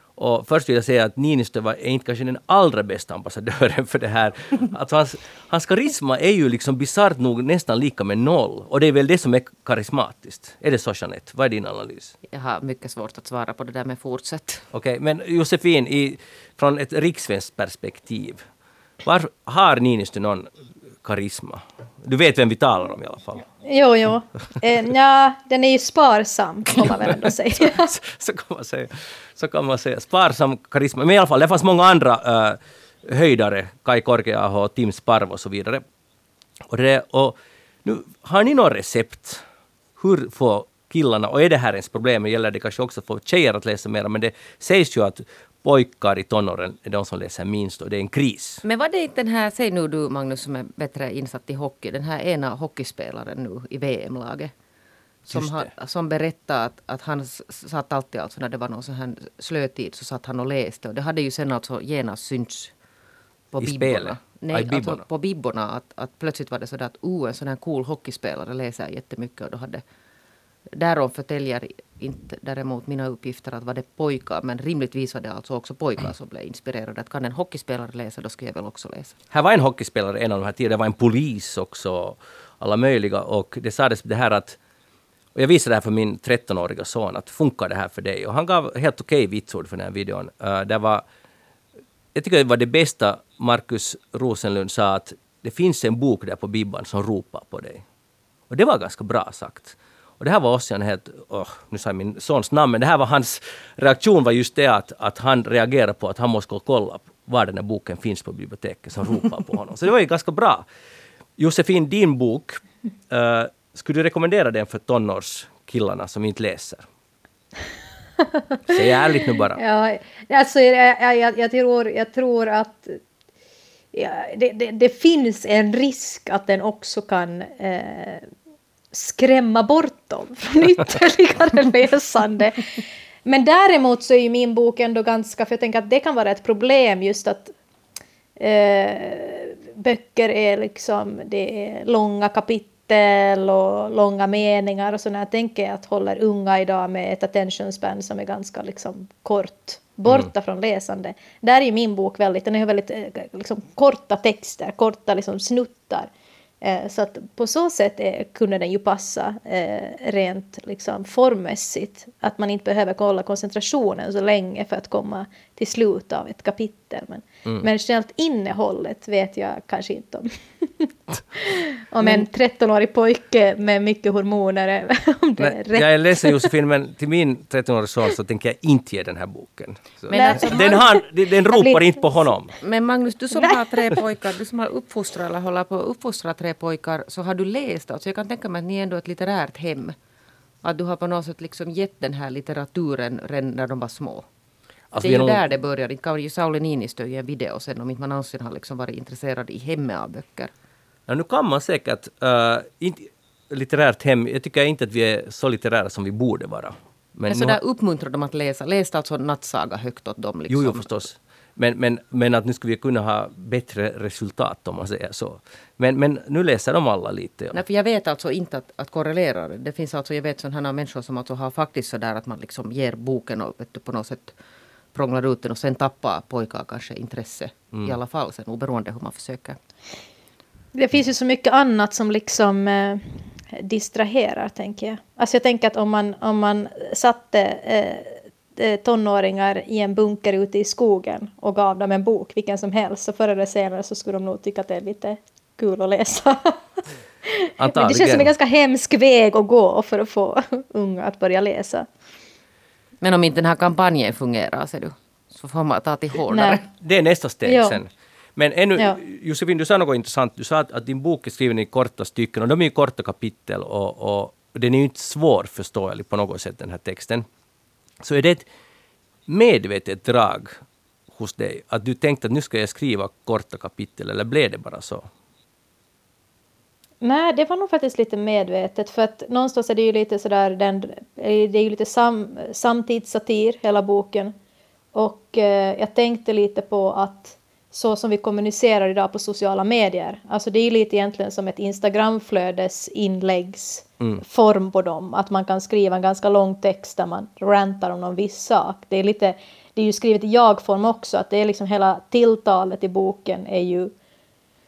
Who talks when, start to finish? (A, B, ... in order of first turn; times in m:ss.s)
0:00.2-0:12.2 A
0:12.3-0:14.6 B
0:14.7-0:18.4 A
0:19.0-0:20.5 A
0:21.0-0:23.4 A
0:23.6-0:27.9 C
0:26.8-0:35.8 A
0:36.7-0:39.4 A
0:40.0-0:48.6 A
0:48.6-0:54.5 B
0:55.2-1:02.7 B
0:55.3-0:55.7 A
1:03.5-1:09.8 B
1:03.6-1:05.0 A
1:10.7-1:19.2 B
1:19.3-1:24.6 A
1:25.4-1:31.0 A
1:32.2-1:37.8 A
1:38.5-1:50.6 A
1:51.4-1:56.9 A
1:58.7-1:59.6 A
1:59.6-2:03.0 C
2:03.9-2:08.3 C
2:08.9-2:12.7 C
2:13.2-2:17.5 C
2:18.4-2:36.1 C
2:36.6-2:56.5 C
2:55.4-3:02.6 A
3:00.1-3:00.8 B
3:00.1-3:01.9 C
3:02.6-3:10.0 B
3:10.6-3:14.2 B
3:14.9-3:15.4 A
3:15.0-3:20.5 B
3:21.1-3:27.6 A
3:27.3-3:30.9 B
3:30.5-3:37.6 A
3:37.5-3:44.3 B
3:44.9-3:49.6 B
3:50.7-4:06.7 C
4:07.3-4:11.9 C
4:07.6-4:08.3 A
4:13.0-4:16.7 B
4:16.3-4:16.6 C
4:16.8-4:27.2 A
4:17.5-4:17.8 C
4:28.0-4:28.5 A
4:29.3-4:30.6 A
4:31.1-4:35.1 A
4:37.0-4:44.4 C
4:44.9-5:03.9 C